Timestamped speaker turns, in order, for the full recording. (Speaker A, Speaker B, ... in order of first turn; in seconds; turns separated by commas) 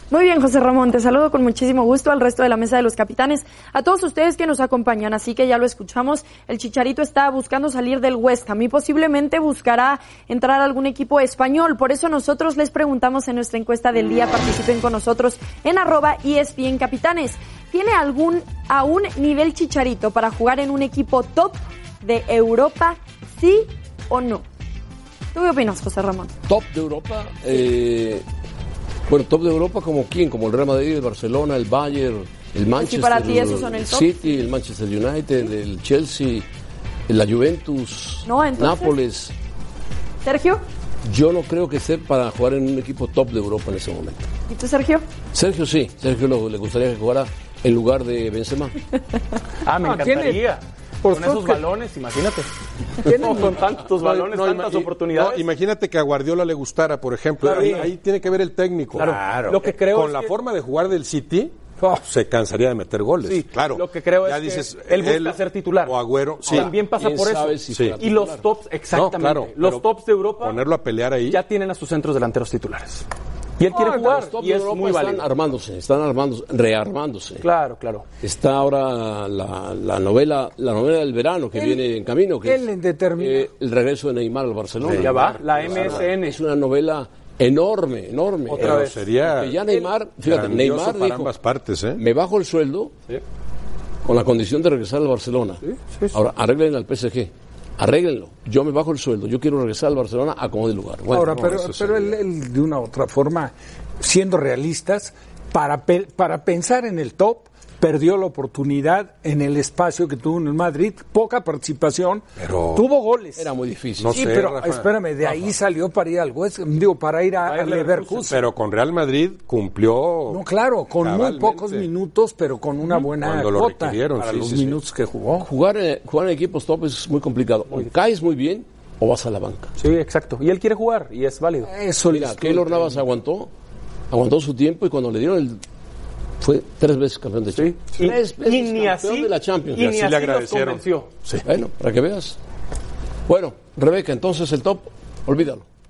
Speaker A: 0.1-24.4, Speaker A: 25.3-26.3, Speaker B: 26.5-28.2, Speaker B: 29.1-36.5, Speaker A: 32.8-34.5, Speaker B: 37.1-39.3, Speaker A: 38.2-39.0, Speaker A: 40.2-40.6, Speaker B: 41.0-44.3, Speaker A: 44.5-45.0, Speaker B: 45.3-48.8, Speaker C: 49.6-52.5, Speaker D: 49.8-50.4, Speaker D: 51.0-51.6, Speaker C: 53.0-55.5, Speaker D: 53.0-53.7, Speaker E: 53.9-66.7, Speaker C: 57.4-57.9, Speaker D: 57.4-57.9, Speaker C: 59.0-60.4, Speaker D: 59.0-59.6, Speaker C: 63.2-70.6, Speaker B: 66.5-68.5, Speaker E: 67.7-68.0, Speaker E: 68.9-71.4, Speaker C: 71.3-73.0, Speaker C: 73.6-75.2, Speaker B: 73.7-77.5, Speaker C: 77.4-78.0, Speaker B: 78.2-82.7, Speaker D: 81.5-81.8, Speaker D: 82.4-83.5, Speaker B: 83.2-91.3, Speaker E: 84.8-86.1, Speaker C: 85.0-86.4, Speaker C: 88.5-89.1, Speaker E: 88.5-89.7, Speaker E: 90.2-92.0, Speaker B: 92.0-92.9, Speaker B: 94.0-95.6, Speaker C: 95.7-96.1, Speaker B: 96.1-101.5, Speaker D: 101.1-113.5, Speaker E: 101.3-102.1, Speaker E: 112.4-112.8, Speaker B: 113.4-114.4, Speaker E: 114.0-114.9, Speaker D: 114.1-118.5, Speaker C: 117.4-118.3, Speaker E: 118.3-120.4, Speaker D: 120.3-125.5, Speaker E: 121.0-121.9, Speaker E: 123.2-124.8, Speaker B: 125.4-129.7, Speaker C: 129.8-131.7, Speaker D: 131.6-133.0, Speaker B: 132.1-133.5, Speaker B: 134.1-135.6, Speaker B: 136.4-140.0, Speaker C: 137.6-141.1, Speaker E: 139.8-141.4, Speaker B: 141.4-142.4, Speaker B: 143.3-145.7